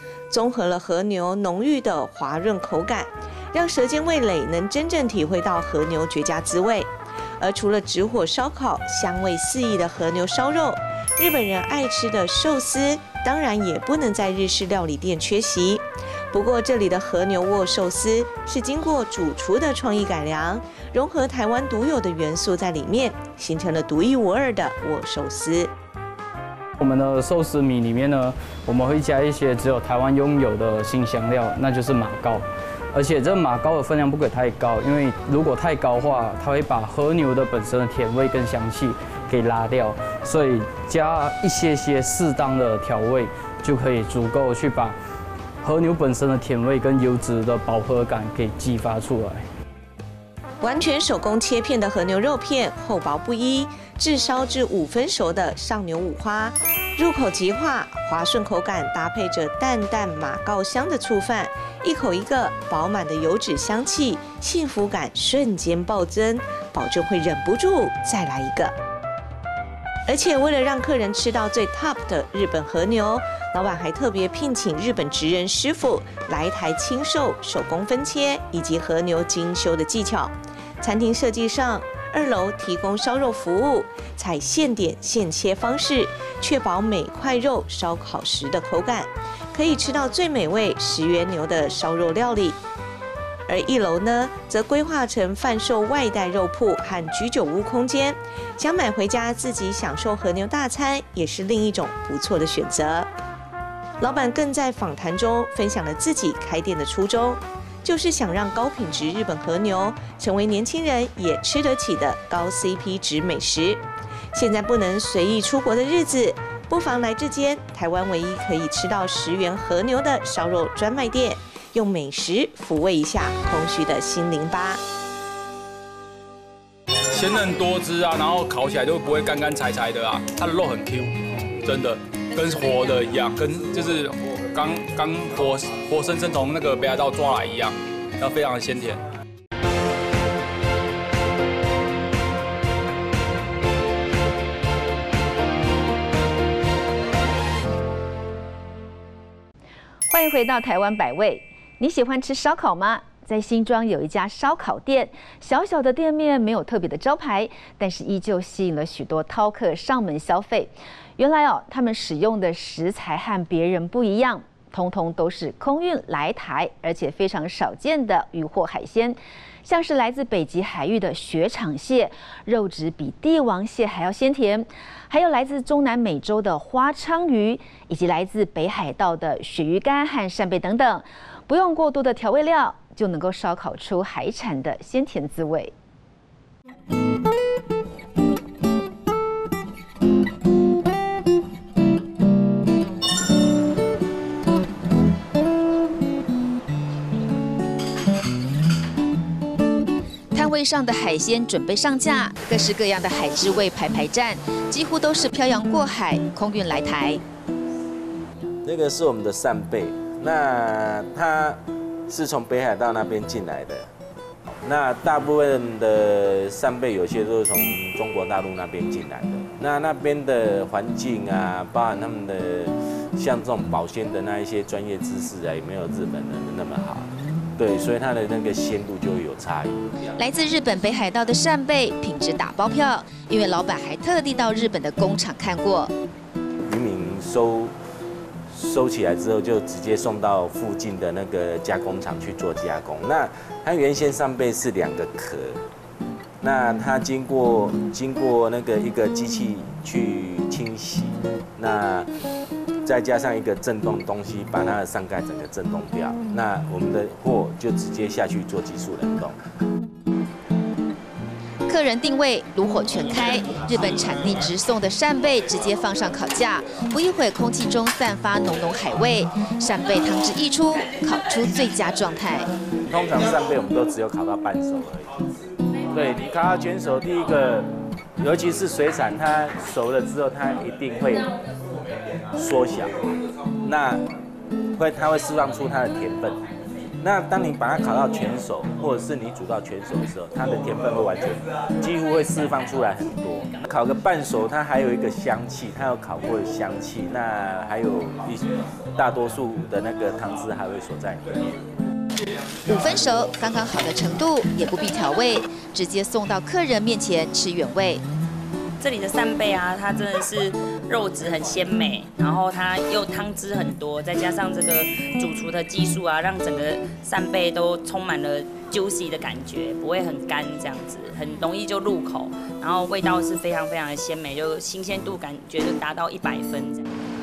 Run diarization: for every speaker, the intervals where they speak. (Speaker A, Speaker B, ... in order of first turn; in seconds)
Speaker A: 0.3-25.7, 50.6-68.7, 70.1-92.6, 93.5-103.1, 104.0-113.8, 114.3-124.8
Speaker B: 26.8-45.0, 45.6-49.5
Speaker C: 127.1-139.0
Speaker D: 150.1-185.7, 200.3-207.2, 230.2-235.9, 261.7-272.5, 302.7-308.0
Speaker E: 208.6-213.9, 214.6-229.9, 236.7-237.7, 238.5-245.6, 246.4-252.1, 252.8-259.4, 272.9-275.1, 275.9-277.7, 278.2-281.3, 282.4-282.9, 283.6-284.0, 284.8-286.4, 287.0-301.6
Speaker F: 308.8-326.8